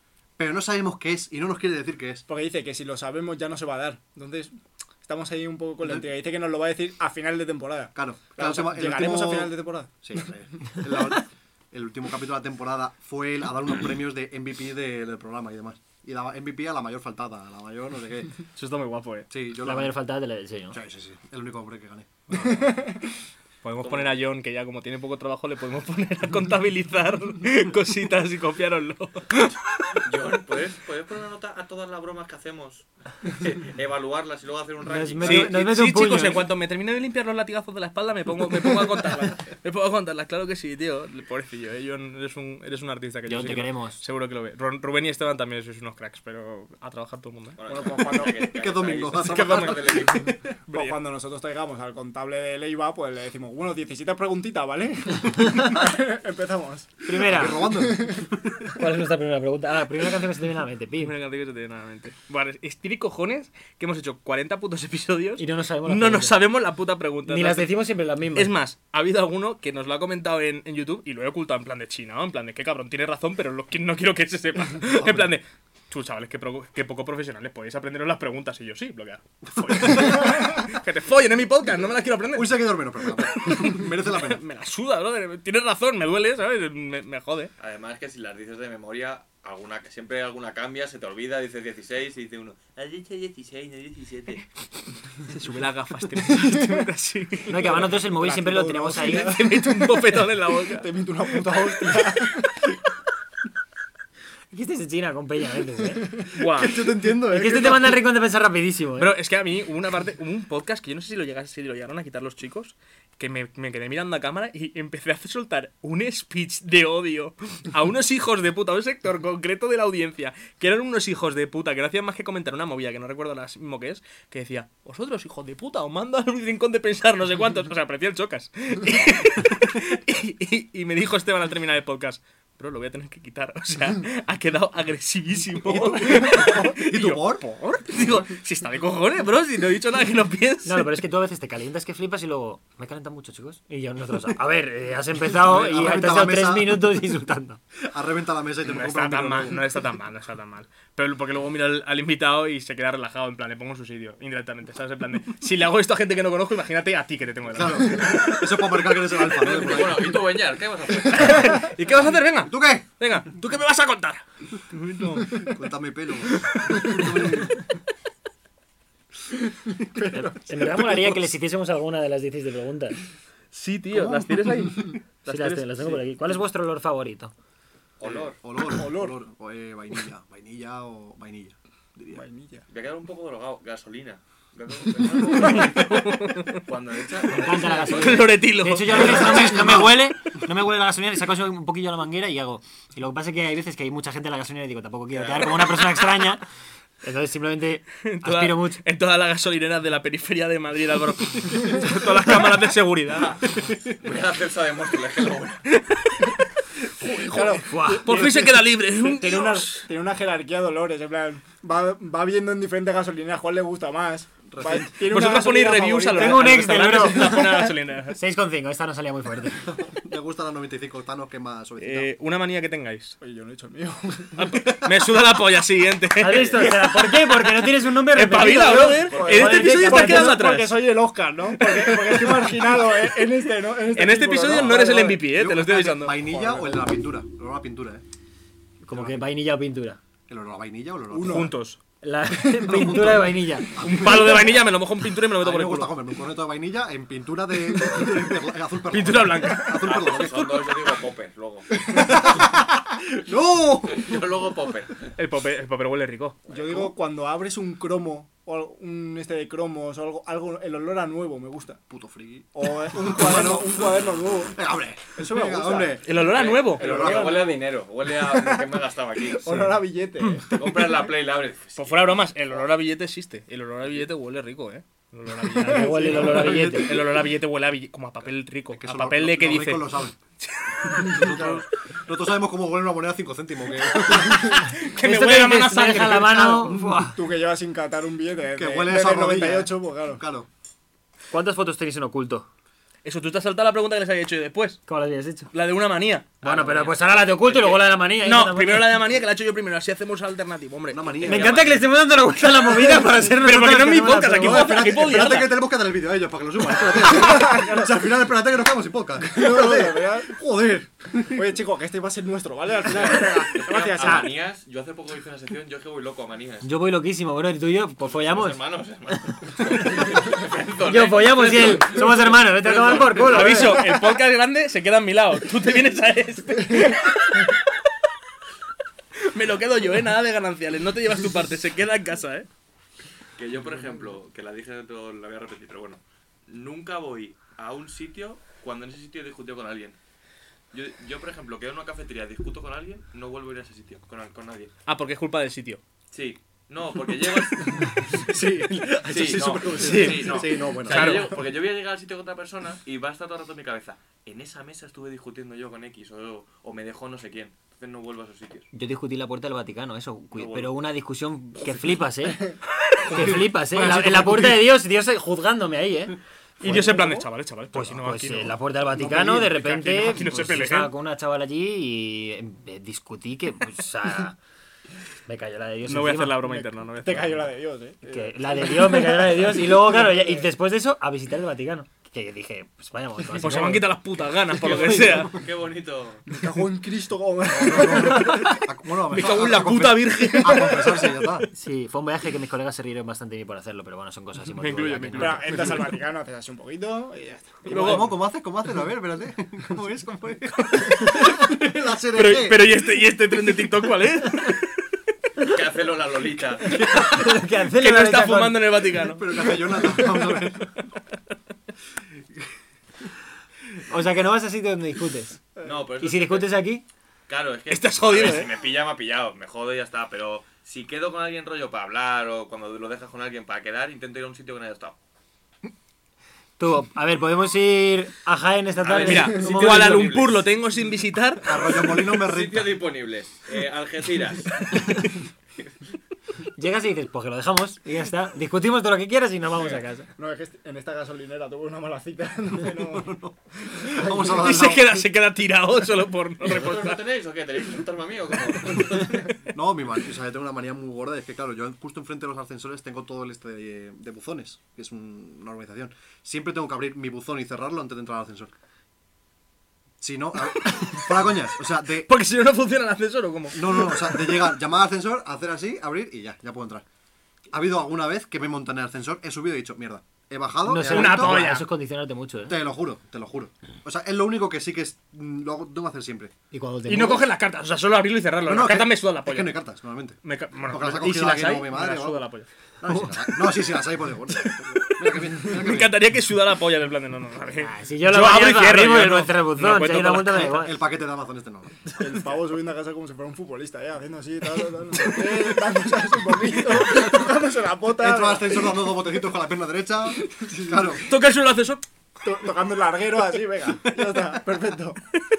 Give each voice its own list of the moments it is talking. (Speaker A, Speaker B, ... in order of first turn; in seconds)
Speaker A: 0.4-2.2, 8.0-18.4, 19.3-20.0, 20.7-22.8, 48.4-50.3, 57.2-58.6, 75.0-75.3, 79.7-80.2, 82.3-84.4, 106.4-108.0, 135.6-137.4, 145.2-147.0, 147.8-149.7, 157.5-160.2, 162.4-162.9, 165.3-167.7, 170.7-171.1, 178.0-182.2, 189.0-190.1, 214.5-214.9, 219.6-222.1, 234.4-238.0, 240.3-241.5, 242.5-244.6, 245.4-250.7, 251.8-254.3, 261.9-267.6, 276.1-277.0, 278.7-280.2, 280.8-284.6, 286.6-287.1, 288.6-290.5, 300.9-301.8, 304.2-311.6, 348.1-351.3, 363.1-364.5, 387.5-391.5, 397.6-402.7, 409.0-410.7, 431.4-432.8, 442.7-445.0, 449.5-458.5, 460.0-462.1, 463.5-466.8, 467.5-471.5, 472.5-476.3, 478.4-482.3, 482.8-486.0, 490.3-491.8, 498.0-501.1, 503.9-504.2
Speaker B: 2.3-9.9, 22.4-23.0, 47.7-48.5, 50.7-58.1, 97.6-102.7, 169.9-170.2, 178.7-179.2, 182.1-182.7, 207.2-217.7, 223.2-224.6, 228.4-235.4, 236.3-236.8, 241.1-241.5, 256.5-261.8, 262.6-264.6, 265.1-266.2, 266.8-267.6, 268.2-268.7, 269.3-271.0, 275.6-276.8, 287.1-290.2, 307.0-307.9, 309.2-310.4, 311.3-314.4, 323.5-324.1, 366.6-367.2, 377.0-380.5, 386.3-388.6, 395.2-398.1, 440.1-443.1, 492.0-498.9, 502.2-505.0
Speaker C: 18.6-19.3, 23.6-30.0, 35.2-47.6, 49.2-51.0, 61.0-67.7, 68.3-87.5, 95.3-97.9, 99.1-100.9, 106.3-106.9, 109.0-140.9, 148.6-158.4, 161.0-165.6, 166.3-167.4, 173.5-176.0, 185.3-186.6, 187.9-189.8, 198.0-203.5, 205.7-206.4, 207.0-209.8, 214.9-218.2, 221.8-223.2, 224.4-230.9, 231.8-232.3, 233.9-236.2, 241.2-241.8, 243.8-245.9, 248.9-250.2, 255.2-256.4, 266.0-267.0, 271.8-279.9, 280.4-281.6, 284.5-286.6, 293.0-294.8, 295.5-296.9, 297.6-301.6, 303.2-305.6, 323.0-327.6, 329.3-332.5, 344.9-345.8, 349.4-351.4, 362.8-364.5, 366.6-370.9, 375.9-377.5, 383.4-385.4, 387.9-388.6, 389.1-391.5, 394.6-396.0, 397.6-398.1, 400.8-401.3, 402.1-404.8, 406.8-410.4, 417.7-418.5, 429.0-431.5, 443.7-447.0, 460.8-461.1, 462.0-464.4, 470.8-471.7, 476.9-479.6, 480.2-482.5, 484.3-490.5, 501.1-501.8
Speaker D: 19.6-20.8, 34.9-36.5, 43.2-44.0, 57.0-57.8, 58.8-61.1, 65.4-66.4, 67.2-68.5, 97.5-99.4, 104.5-106.1, 107.3-109.1, 140.6-147.6, 170.1-173.0, 175.3-177.3, 187.2-196.4, 197.0-198.8, 207.6-208.3, 216.1-219.7, 226.2-230.4, 238.8-240.0, 242.0-243.7, 275.6-276.9, 285.0-287.2, 291.3-292.5, 294.9-295.5, 296.4-299.0, 301.2-305.0, 316.6-318.7, 320.9-323.9, 358.7-367.0, 367.7-374.4, 375.3-376.6, 378.1-383.9, 391.5-395.8, 406.8-408.6, 413.9-415.4, 416.0-416.8, 426.6-429.9, 436.6-440.1, 470.6-472.6, 476.5-477.3, 487.6-490.8
Speaker E: 23.8-24.2, 30.0-35.6, 47.6-50.3, 87.6-94.5, 159.3-161.6, 178.0-178.4, 182.7-188.3, 195.1-196.0, 203.1-205.6, 249.8-252.0, 253.9-255.1, 266.2-269.7, 270.4-272.6, 296.6-296.9, 297.5-297.8, 301.3-301.7, 312.9-316.7, 318.0-323.6, 333.4-340.0, 340.7-344.7, 346.1-347.9, 349.1-358.6, 360.3-360.8, 384.5-386.2, 405.4-406.8, 415.6-416.6, 417.3-424.9, 428.8-430.4, 432.1-435.0, 439.6-439.8, 446.4-449.3